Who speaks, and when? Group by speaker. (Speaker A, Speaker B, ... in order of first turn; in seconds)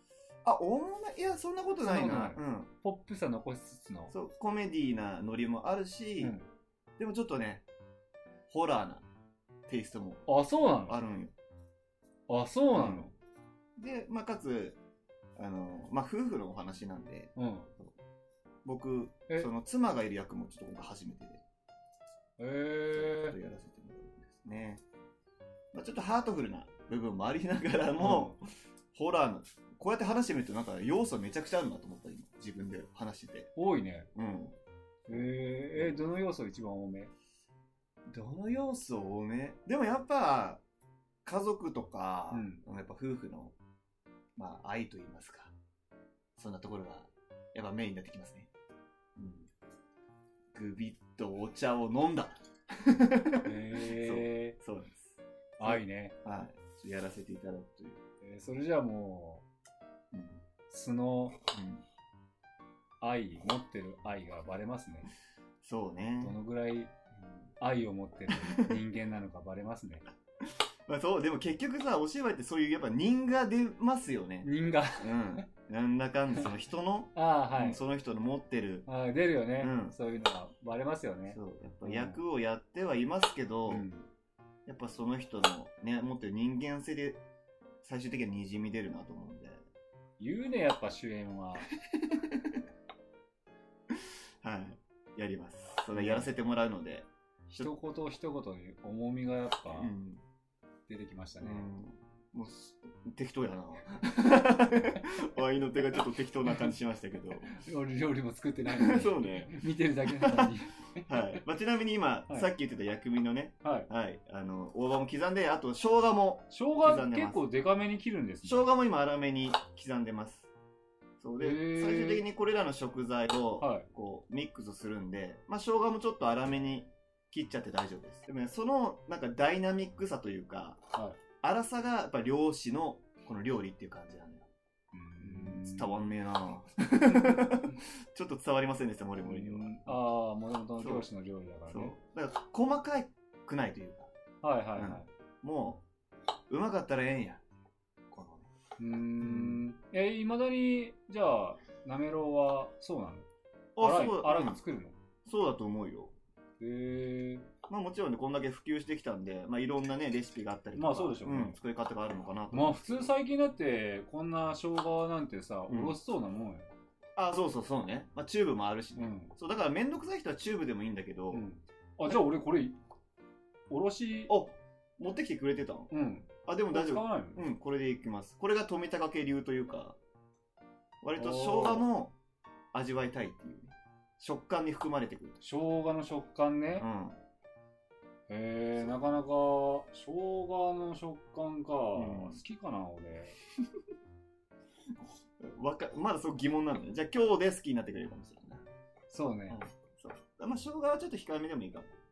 Speaker A: 0.4-2.7, 4.1-6.3, 7.0-7.6, 8.5-9.1, 9.7-10.2, 10.9-11.3, 12.7-13.1, 13.8-14.8, 15.3-17.9, 18.6-21.4, 23.0-24.8, 25.7-33.5, 34.1-34.6, 35.1-36.0, 38.1-40.6, 41.2-43.5, 44.4-45.5, 46.4-48.5, 49.1-49.5, 50.5-58.0, 60.1-60.4, 61.5-61.8, 65.6-66.4, 67.2-67.5, 68.3-68.8, 70.4-78.9, 79.6-79.9, 81.3-83.9, 84.7-87.2, 87.8-89.6, 91.8-92.6, 93.9-97.7, 99.7-100.2, 101.4-107.6, 108.7-110.5, 111.0-117.4, 118.4-120.5, 121.2-130.8, 131.4-134.5, 135.2-140.0, 140.8-141.1, 141.7-144.1, 144.8-145.8, 146.5-147.4, 148.1-148.5, 149.2-149.6, 153.8-154.6, 155.2-156.1, 157.7-163.1, 165.7-166.0, 167.2-171.4, 174.3-175.9, 176.4-180.0, 181.0-182.1, 182.7-185.4, 186.8-187.2, 188.8-189.2, 191.9-192.4, 195.4-198.7, 199.5-201.9
Speaker B: 1.8-4.1, 10.3-11.0, 12.3-13.1, 17.4-17.7, 22.4-23.4, 28.0-28.3, 33.5-34.1, 35.1-37.1, 42.3-42.6, 53.4-54.5, 55.6-56.1, 58.2-59.4, 60.7-61.4, 63.0-65.1, 66.2-66.9, 67.6-70.0, 74.4-75.5, 77.1-77.8, 78.8-82.2, 83.7-84.1, 90.2-91.7, 95.9-96.3, 97.5-99.9, 100.9-101.7, 107.5-111.4, 113.6-113.9, 116.5-118.7, 121.4-122.2, 123.6-123.9, 134.9-136.0, 137.3-137.7, 139.2-141.9, 144.4-145.1, 148.8-153.3, 153.8-155.0, 156.6-157.5, 160.7-161.6, 162.5-166.7, 169.0-169.3, 171.3-172.8, 173.7-174.3, 175.9-177.5, 181.2-181.9, 185.4-186.9, 188.3-193.4, 199.1-199.6